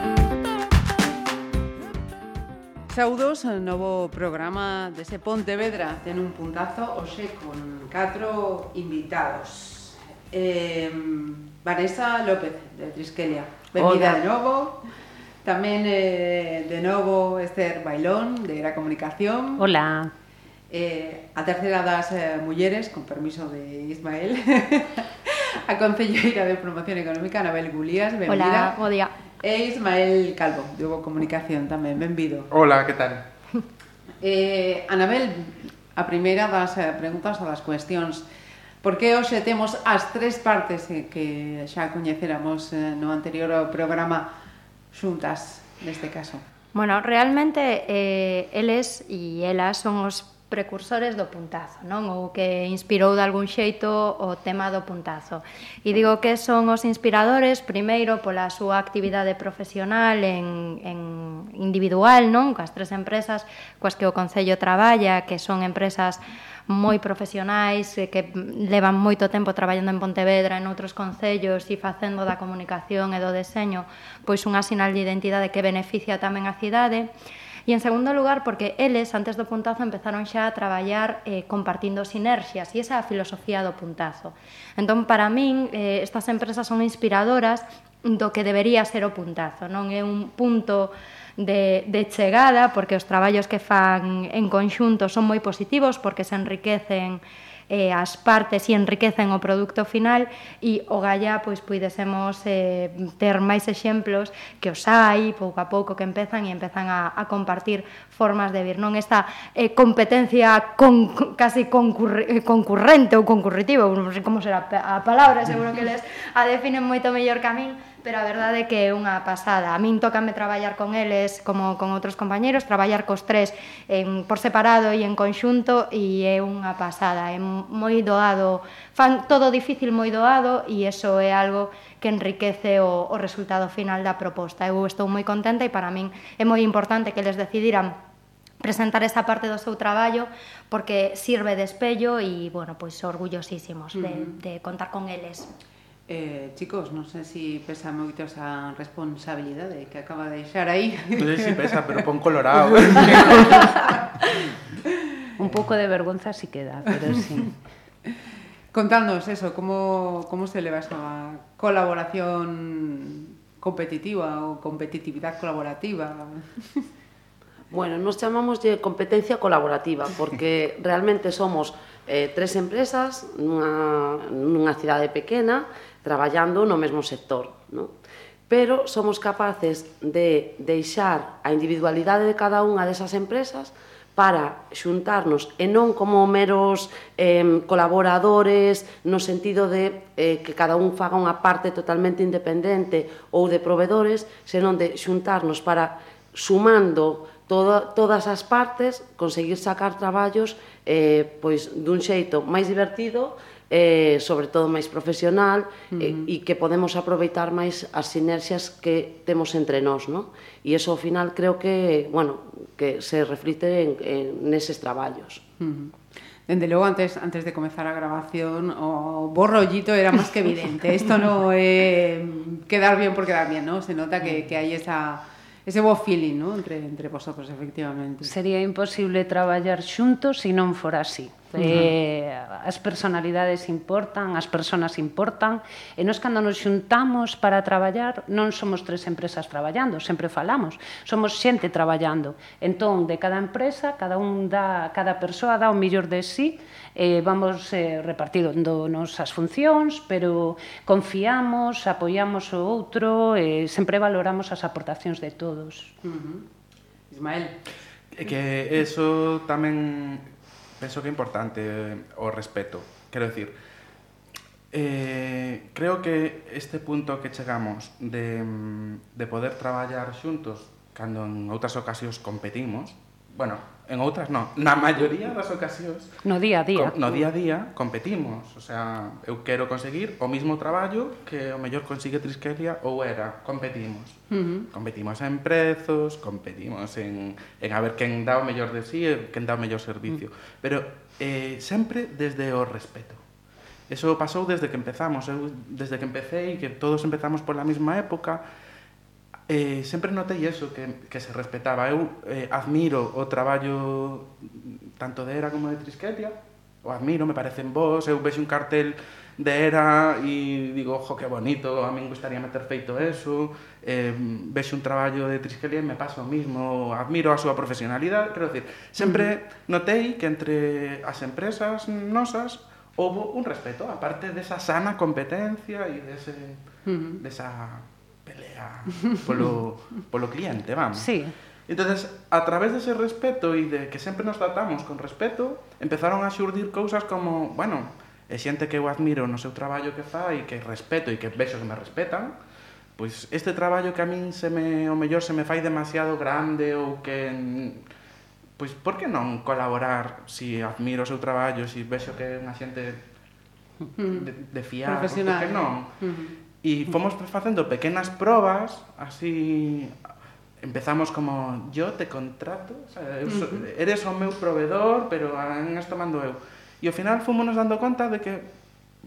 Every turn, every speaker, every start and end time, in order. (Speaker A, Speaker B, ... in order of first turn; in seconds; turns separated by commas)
Speaker A: 2.9-14.8, Speaker B: 13.8-14.2, Speaker A: 15.4-19.7, Speaker B: 19.6-20.1, Speaker A: 20.7-28.8, Speaker C: 28.3-29.1, Speaker A: 29.4-32.5, Speaker D: 32.5-33.2, Speaker A: 34.2-38.2, Speaker A: 38.8-44.3, Speaker A: 44.9-46.4, Speaker C: 46.7-77.1, Speaker C: 77.7-137.9, Speaker C: 138.6-145.5, Speaker A: 143.9-144.4, Speaker A: 146.1-152.1, Speaker D: 151.2-154.0, Speaker A: 152.7-154.3, Speaker A: 154.9-155.3, Speaker B: 155.4-157.5, Speaker D: 155.4-155.7, Speaker A: 157.1-157.5, Speaker A: 158.7-166.9, Speaker E: 167.7-177.9, Speaker E: 178.5-215.4, Speaker A: 205.9-206.3, Speaker A: 215.6-215.9, Speaker A: 216.5-228.3, Speaker B: 228.2-255.9, Speaker A: 231.6-231.9, Speaker A: 256.0-256.4, Speaker A: 257.1-257.6, Speaker D: 258.1-260.2, Speaker D: 260.8-263.5, Speaker D: 264.7-276.1, Speaker B: 276.2-277.1, Speaker D: 276.7-293.2, Speaker A: 284.3-284.7, Speaker D: 293.9-298.4, Speaker D: 299.5-331.1, Speaker A: 319.0-319.3, Speaker A: 326.8-327.2, Speaker B: 330.9-331.3, Speaker D: 331.7-342.3, Speaker D: 343.0-347.8, Speaker D: 348.6-353.0, Speaker A: 354.0-356.4, Speaker D: 354.1-356.0, Speaker D: 356.6-359.9, Speaker D: 360.6-368.5, Speaker A: 363.2-363.7